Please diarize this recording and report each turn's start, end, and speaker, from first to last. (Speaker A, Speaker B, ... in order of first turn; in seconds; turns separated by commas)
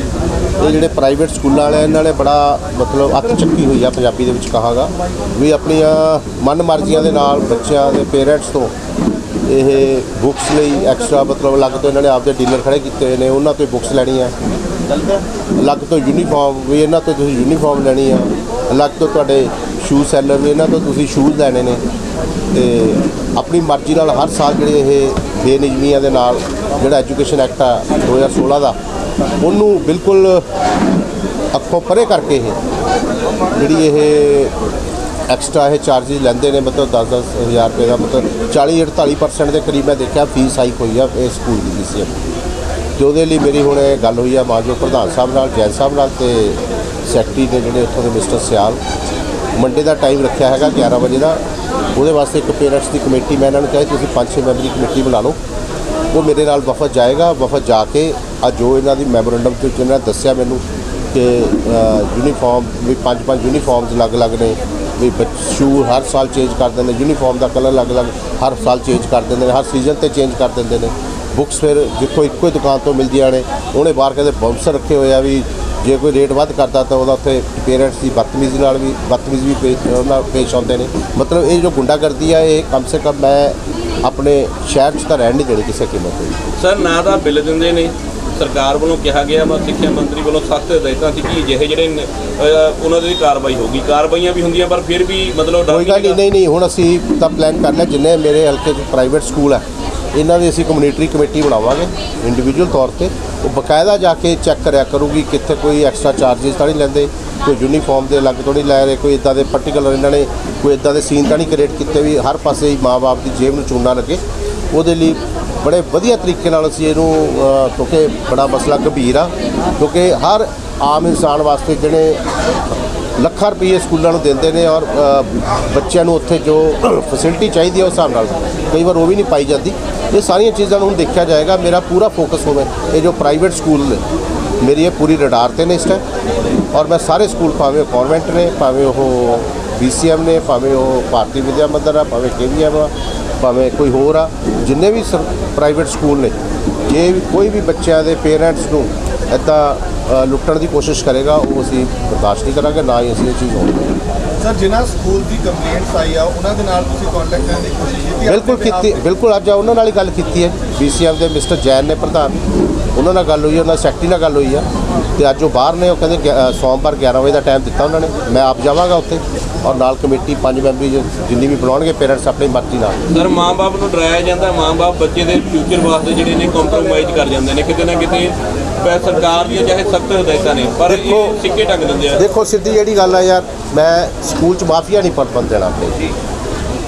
Speaker A: 0.6-8.7, Speaker A: 9.5-14.3, Speaker B: 14.9-15.2, Speaker A: 15.6-21.8, Speaker A: 22.5-28.8, Speaker A: 29.4-30.4, Speaker A: 31.5-32.6, Speaker A: 33.5-34.5, Speaker A: 35.3-42.2, Speaker A: 43.0-48.8, Speaker A: 49.6-51.4, Speaker A: 52.0-55.4, Speaker A: 56.1-60.6, Speaker A: 61.1-86.4, Speaker B: 86.6-96.2, Speaker A: 95.7-114.2, Speaker A: 114.7-122.2, Speaker A: 123.2-134.0, Speaker A: 134.6-136.0, Speaker A: 136.7-153.9, Speaker C: 154.4-159.0, Speaker A: 158.2-162.4, Speaker A: 162.9-164.7, Speaker A: 165.2-173.0, Speaker B: 173.1-182.2, Speaker A: 180.9-181.4, Speaker A: 182.1-186.0